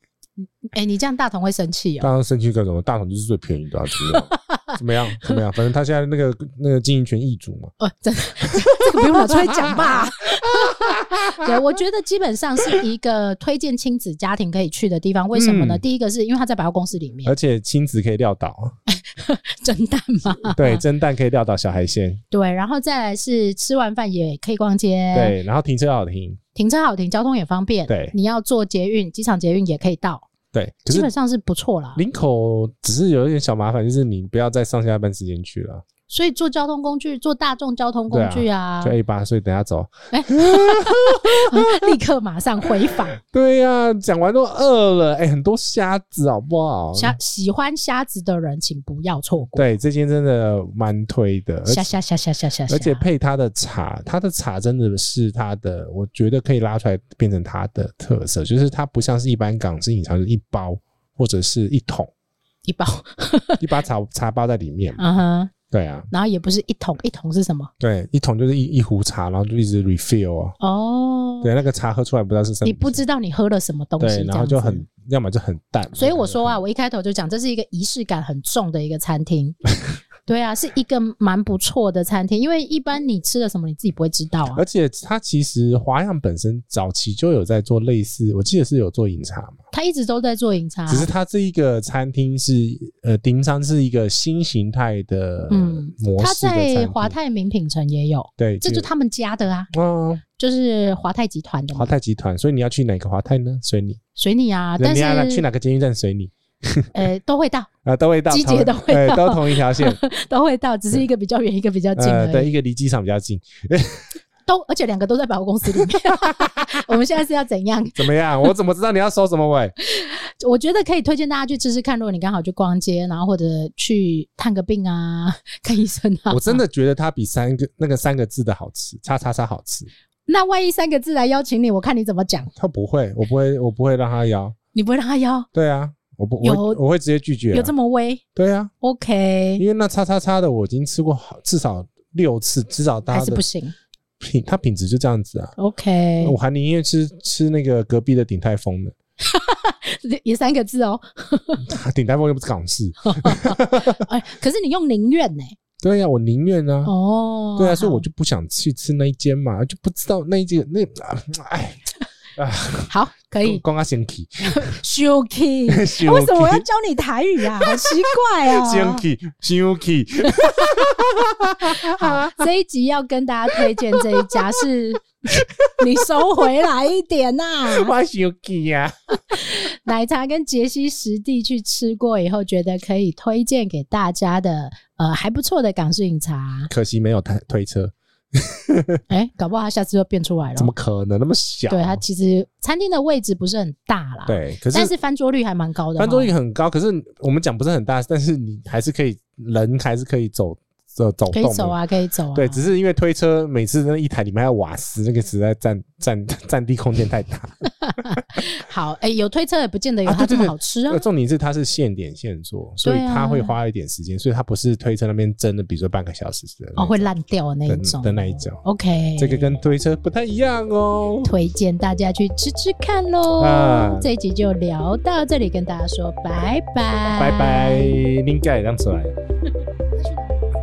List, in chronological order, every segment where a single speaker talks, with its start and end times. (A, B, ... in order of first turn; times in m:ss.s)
0:00.4-0:02.1 A
0:02.0-0:07.7 B
0:04.0-0:04.7 A
0:07.8-0:17.3 A
0:08.5-0:11.5 B
0:15.3-0:15.8 B
0:17.2-0:18.8 B
0:18.9-0:20.8 A
0:20.5-0:22.2 B
0:22.3-0:25.4 A
0:25.1-0:26.4 B
0:26.5-0:30.3 A
0:27.9-0:28.1 B
0:30.5-0:31.1 B
0:30.9-0:32.0 A
0:31.9-0:35.8 B
0:36.1-0:38.9 A
0:38.1-0:41.9 B
0:40.1-0:43.2 A
0:43.2-0:47.2 B
0:46.9-0:49.6 A
0:49.5-0:51.9 B
0:51.6-0:53.0 A
0:52.7-1:02.1 B
1:02.6-1:03.7 A
1:03.6-1:05.0 B
1:05.0-1:05.5 A
1:05.7-1:06.1 B
1:06.1-1:07.7 A
1:07.8-1:10.5 B
1:10.6-1:11.5 A
1:11.4-1:13.0 B
1:12.6-1:14.9 A
1:14.0-1:16.6 B
1:16.0-1:19.6 A
1:20.2-1:24.6 A
1:24.5-1:29.6 B
1:29.7-1:31.1 A
1:30.9-1:37.2 B
1:35.5-1:39.7 A
1:38.4-1:38.9 B
1:39.7-1:40.2 B
1:40.3-1:41.9 A
1:41.7-1:44.0 B
1:44.2-1:45.4 A
1:44.8-1:46.9 B
1:46.9-1:47.7 A
1:47.8-1:50.0 B
1:48.3-1:52.5 A
1:52.0-1:54.1 B
1:54.4-1:58.4 A
1:56.0-1:56.8 B
1:58.0-1:59.7 B
1:59.8-2:06.6 A
2:06.3-2:09.9 B
2:10.3-2:12.5 A
2:12.6-2:14.6 B
2:14.7-2:15.5 A
2:15.5-2:17.7 B
2:16.4-2:16.8 A
2:17.5-2:18.2 A
2:18.3-2:18.7 B
2:18.8-2:19.6 A
2:19.6-2:23.4 B
2:23.1-2:23.7 A
2:24.2-2:25.5 B
2:25.6-2:26.4 A
2:26.2-2:28.9 B
2:29.2-2:31.6 A
2:31.6-2:34.0 B
2:33.0-2:35.6 A
2:35.8-2:36.9 B
2:36.8-2:38.0 A
2:37.6-2:41.8 B
2:42.4-2:44.7 B
2:42.9-2:43.6 A
2:44.5-2:49.0 A
2:45.7-2:46.7 B
2:47.4-2:52.4 B
2:50.3-2:50.9 A
2:51.6-2:55.1 A
2:53.6-2:54.5 B
2:55.3-2:56.0 B
2:55.8-2:57.9 A
2:57.6-2:59.4 B
2:59.3-3:06.7 A
3:06.7-3:09.0 B
3:09.1-3:10.7 A
3:10.6-3:12.0 B
3:11.7-3:16.3 A
3:14.2-3:14.9 B
3:16.0-3:21.8 B
3:21.3-3:22.6 A
3:22.3-3:27.6 B
3:27.6-3:31.0 A
3:30.0-3:37.1 B
3:32.8-3:33.5 A
3:36.8-3:39.6 A
3:37.7-3:38.6 B
3:39.2-3:41.3 B
3:41.2-3:48.1 A
3:43.4-3:44.1 B
3:47.1-3:49.1 B
3:50.0-3:50.4 A